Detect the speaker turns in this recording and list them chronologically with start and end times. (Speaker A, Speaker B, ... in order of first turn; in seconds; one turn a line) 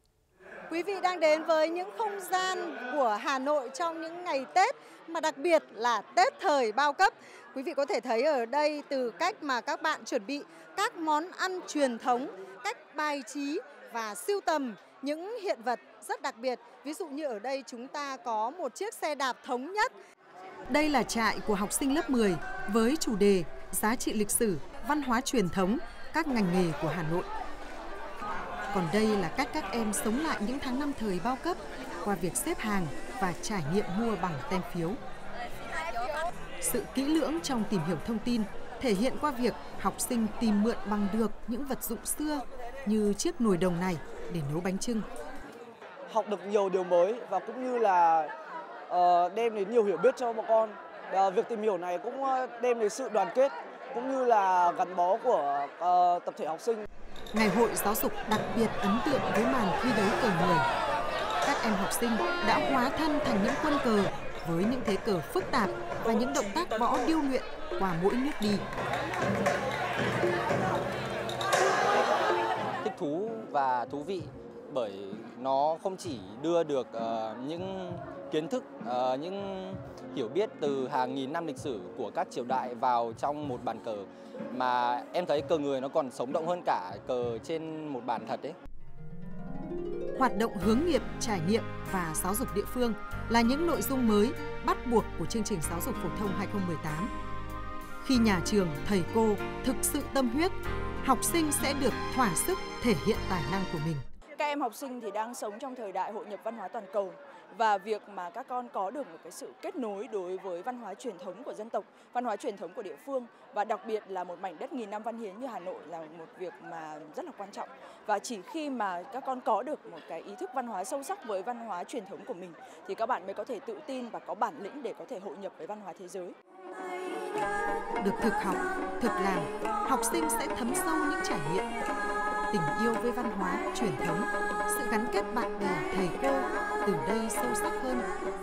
Speaker A: 0.7-19.9
Speaker B: 20.7-27.3
Speaker B: 28.7-35.0
Speaker B: 36.6-45.0
Speaker C: 46.1-48.3
Speaker C: 48.9-56.8
Speaker B: 57.3-60.6
Speaker B: 61.5-68.7
Speaker D: 72.8-88.6
Speaker B: 90.2-97.1
Speaker B: 98.0-104.0
Speaker E: 104.4-126.3
Speaker B: 128.0-131.7
Speaker B: 132.5-138.1